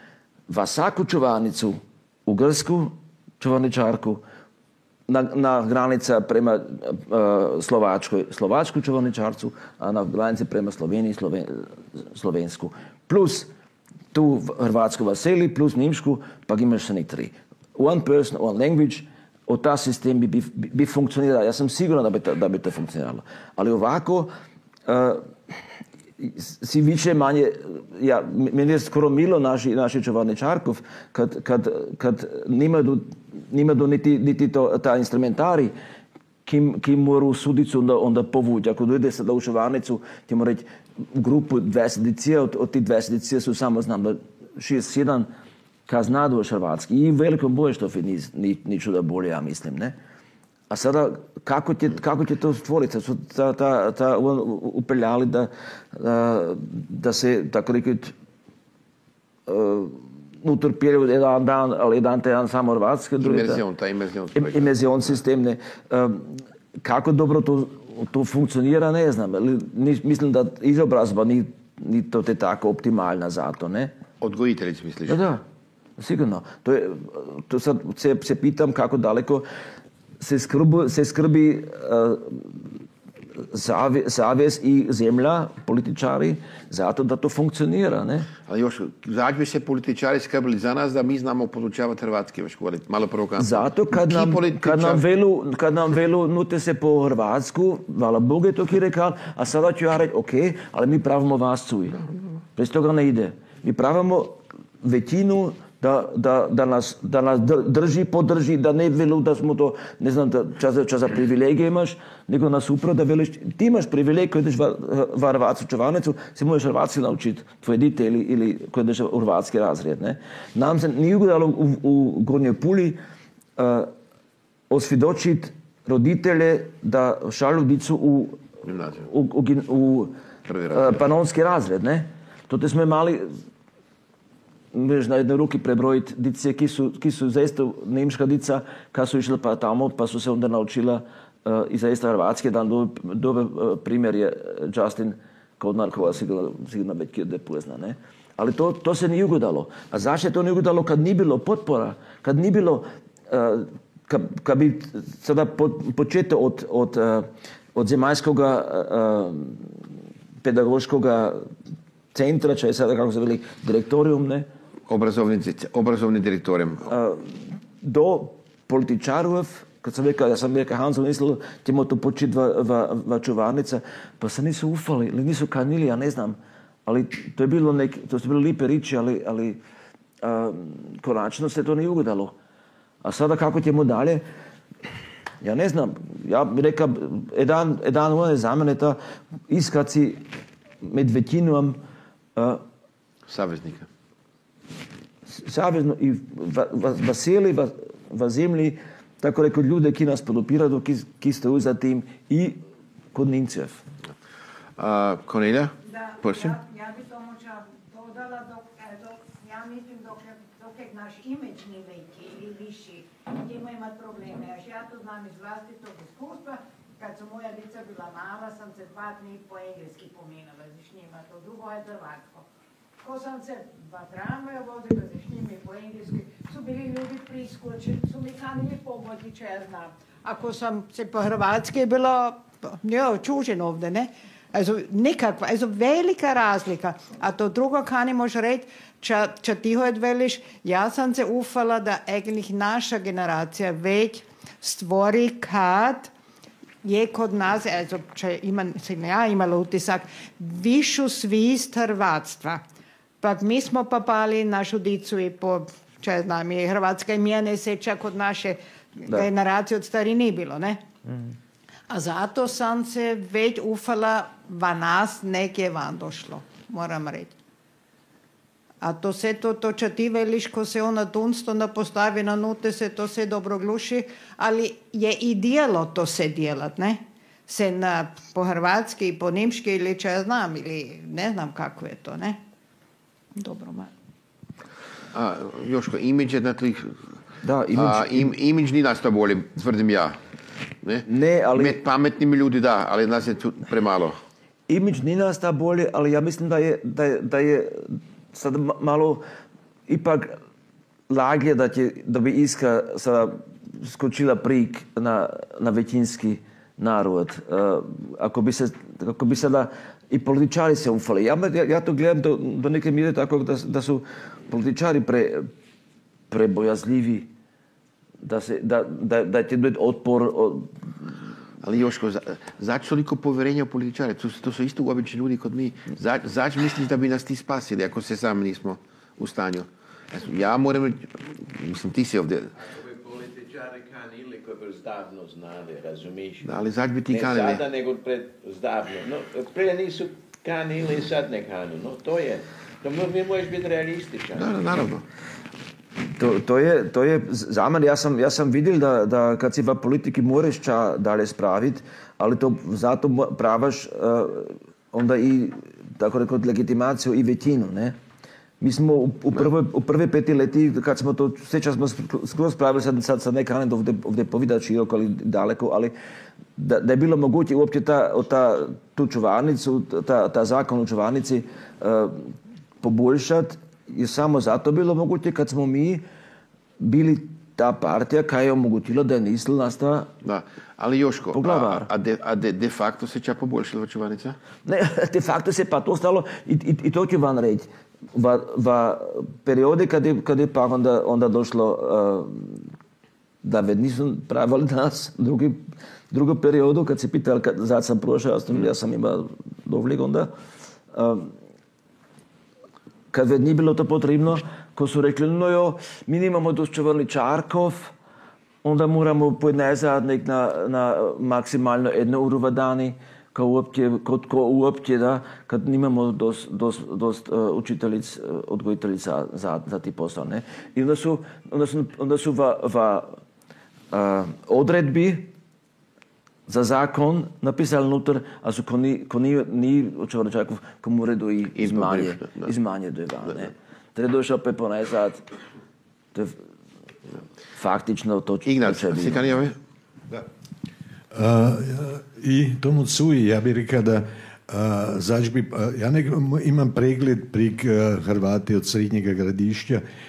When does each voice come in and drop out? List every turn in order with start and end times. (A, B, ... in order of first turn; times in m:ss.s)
0:00.5-0:04.2 A
0:05.1-0:13.5 A
0:14.1-0:24.3 A
0:24.9-0:25.3 A
0:26.2-0:35.7 A
0:36.5-0:45.3 A
0:45.9-0:50.0 A
0:50.7-0:58.1 A
0:59.5-1:03.6 A
1:03.2-1:05.2 B
1:04.4-1:13.9 A
1:14.2-1:15.2 B
1:15.1-1:15.4 A
1:16.0-1:19.4 A
1:20.2-1:22.6 A
1:23.5-1:28.3 A
1:28.5-1:35.0 B
1:33.4-1:42.0 A
1:42.6-2:03.0 A
2:03.6-2:03.9 A
2:04.7-2:10.2 A
2:08.7-2:09.0 B
2:10.5-2:11.0 B
2:10.7-2:13.3 A
2:14.7-2:39.8 A
2:40.4-2:41.5 A
2:42.1-2:44.5 A
2:44.9-2:46.9 B
2:46.9-2:59.6 A
3:00.2-3:02.4 A
3:03.0-3:04.2 A
3:05.4-3:09.0 A
3:09.5-3:10.2 A
3:10.8-3:11.8 A
3:12.4-3:12.6 A
3:13.3-3:13.9 B
3:15.3-3:22.6 A
3:23.1-3:23.8 A
3:24.8-3:26.6 B
3:25.8-3:42.5 C
3:43.0-4:06.1 C
4:06.8-4:12.6 C
4:13.2-4:20.8 C
4:21.9-4:27.3 C
4:28.8-4:42.4 C
4:43.4-4:43.9 C
4:45.1-4:47.0 B
4:47.4-4:48.3 A
4:47.7-4:50.2 B
4:50.8-4:54.2 B
4:51.1-4:51.8 A
4:54.7-4:59.2 A
4:59.9-5:00.4 A
5:01.1-5:15.5 A
5:16.3-5:17.3 A
5:18.2-5:20.7 A
5:21.6-5:32.5 B
5:32.6-5:36.6 D
5:36.4-5:37.6 B
5:37.1-5:44.6 D
5:44.4-5:45.0 B
5:46.2-5:58.0 A
5:58.6-6:05.9 A
6:06.6-6:12.3 A
6:12.8-6:16.0 A
6:16.8-6:20.1 A
6:20.2-6:24.4 B
6:21.3-6:21.9 A
6:24.6-6:32.7 A
6:33.4-6:35.6 A
6:36.1-6:40.3 A
6:40.9-6:41.3 A
6:43.1-6:47.9 A
6:48.6-7:03.2 A
7:03.9-7:05.3 A
7:06.5-7:15.2 A
7:11.6-7:12.5 B
7:16.1-7:16.4 A
7:17.6-7:19.3 A
7:18.5-7:19.6 B
7:21.1-7:29.8 E